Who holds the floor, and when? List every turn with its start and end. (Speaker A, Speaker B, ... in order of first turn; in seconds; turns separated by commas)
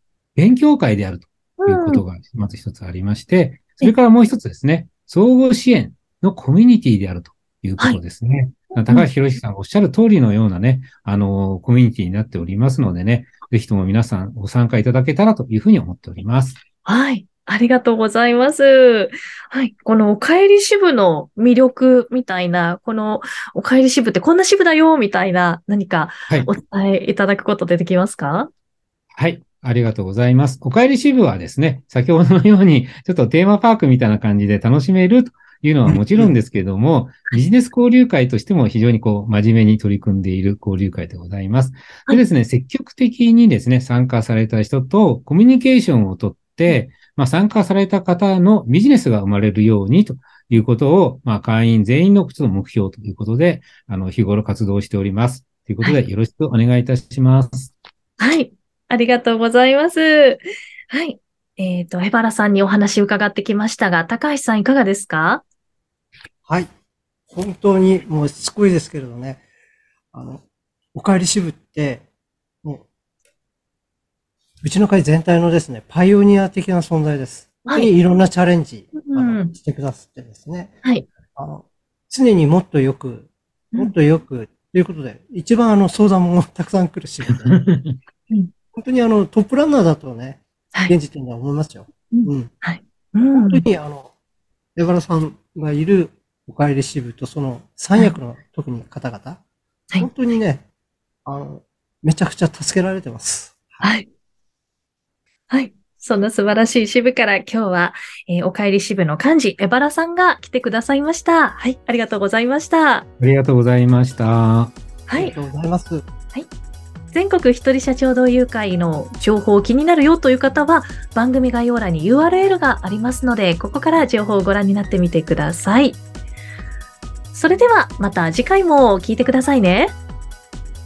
Speaker A: 0.3-16.6, Speaker B: 1.6-2.0, Speaker B: 8.8-9.1, Speaker B: 16.8-28.5, Speaker A: 29.1-57.7, Speaker B: 58.2-65.4, Speaker C: 67.3-69.4, Speaker C: 70.1-70.4, Speaker C: 70.9-72.0, Speaker C: 74.6-87.5, Speaker B: 77.7-77.9, Speaker B: 79.0-79.5, Speaker A: 87.5-88.0, Speaker C: 88.7-92.5, Speaker B: 92.1-93.7, Speaker C: 93.3-94.1, Speaker C: 94.8-99.4, Speaker C: 100.0-100.6, Speaker C: 101.2-103.8, Speaker B: 103.8-104.1, Speaker B: 105.5-113.0, Speaker A: 113.2-114.7, Speaker B: 115.1-115.3, Speaker C: 115.1-116.0, Speaker B: 117.1-126.0, Speaker B: 127.3-129.9